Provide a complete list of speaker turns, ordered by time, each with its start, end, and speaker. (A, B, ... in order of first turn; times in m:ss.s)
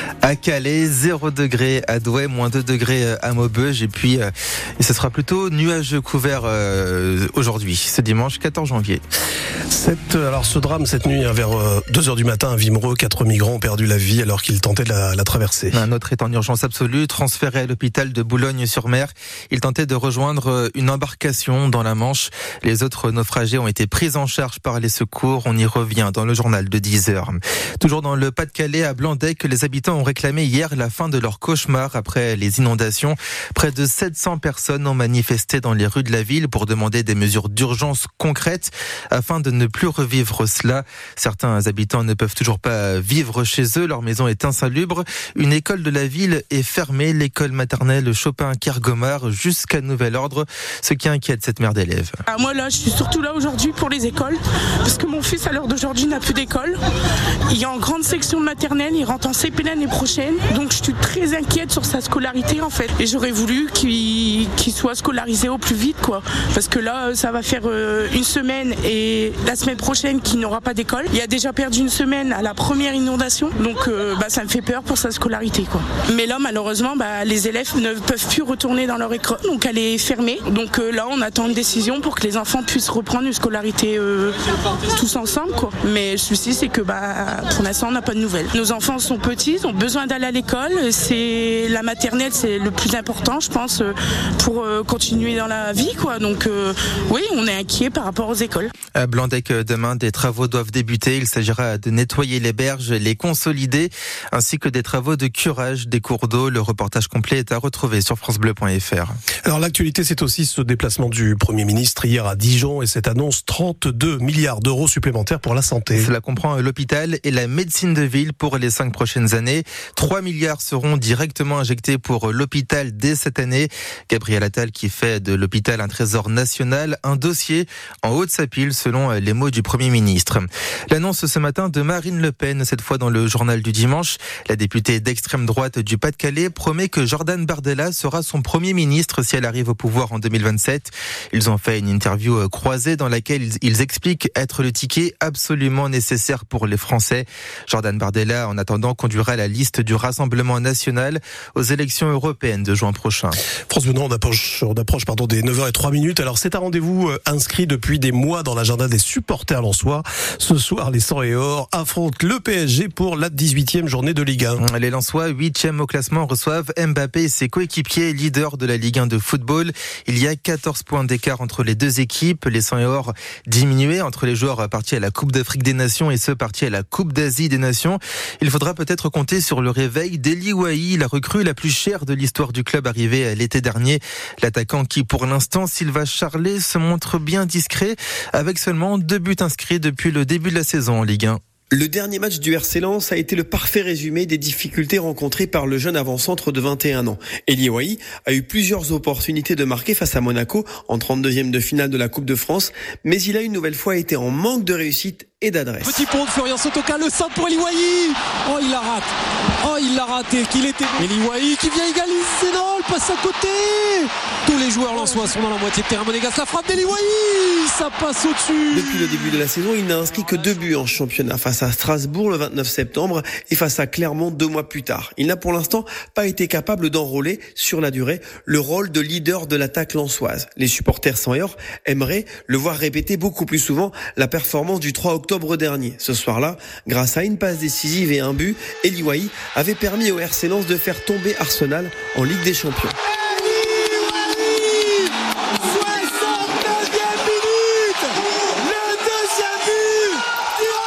0:00.2-0:09.0 A
0:09.7-0:15.8 B
0:15.7-0:52.1 A
0:52.3-0:56.8 C
0:57.5-1:38.7 C
1:39.0-1:49.2 A
1:49.4-1:56.1 B
1:55.9-2:33.4 A
2:33.7-2:44.6 B
2:44.6-3:11.4 A
3:11.7-3:26.0 D
3:25.8-3:29.1 E
3:29.6-3:39.2 E
3:38.7-4:03.0 D
4:03.4-4:05.1 E
4:05.6-4:07.9 E
4:09.2-4:10.0 E